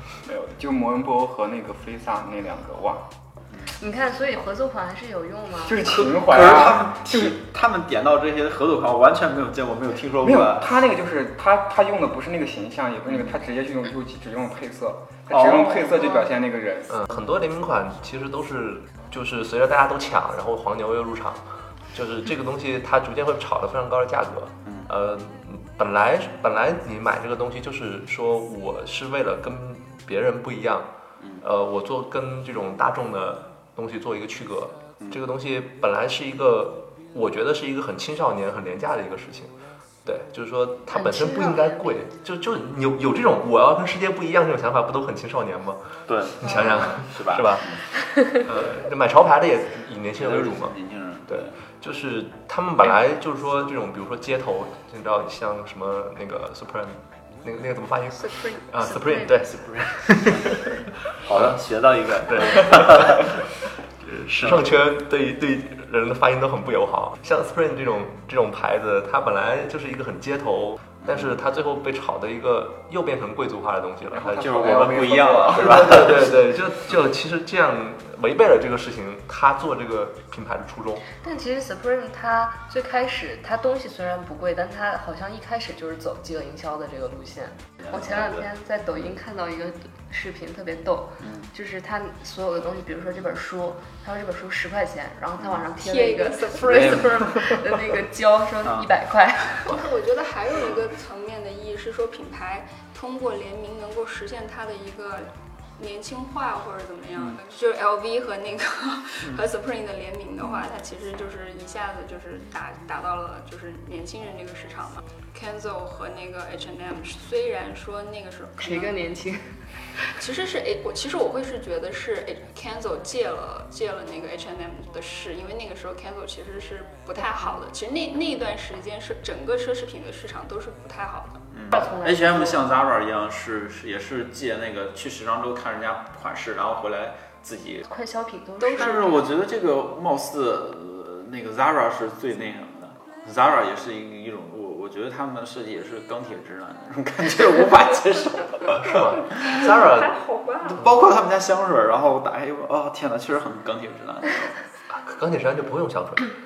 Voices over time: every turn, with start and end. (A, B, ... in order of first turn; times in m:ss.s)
0:00.2-0:03.1 A
0:03.6-0:06.2 B
0:05.6-0:07.4 A
0:06.3-0:10.6 C
0:10.2-0:16.9 A
0:15.3-0:15.7 C
0:16.9-0:30.9 D
0:31.4-0:39.5 D
0:40.0-0:50.8 D
0:40.9-0:42.0 B
0:46.1-0:47.8 C
0:46.5-0:46.8 B
0:50.2-0:51.5 C
0:51.3-1:00.7 D
0:58.2-0:59.4 E
0:59.4-1:00.5 C
1:01.2-1:03.2 C
1:02.3-1:03.4 D
1:04.0-1:14.8 D
1:14.1-1:16.1 A
1:14.4-1:16.2 C
1:15.5-1:21.1 D
1:21.1-1:39.9 B
1:35.8-1:37.2 E
1:39.6-1:58.9 E
1:58.6-2:00.2 B
2:00.2-2:11.5 E
2:11.5-2:17.8 C
2:11.7-2:12.7 B
2:17.8-2:19.4 B
2:18.6-2:19.2 E
2:18.7-2:28.7 C
2:28.7-2:30.2 D
2:29.4-2:30.8 E
2:30.8-2:34.5 C
2:34.9-2:36.3 D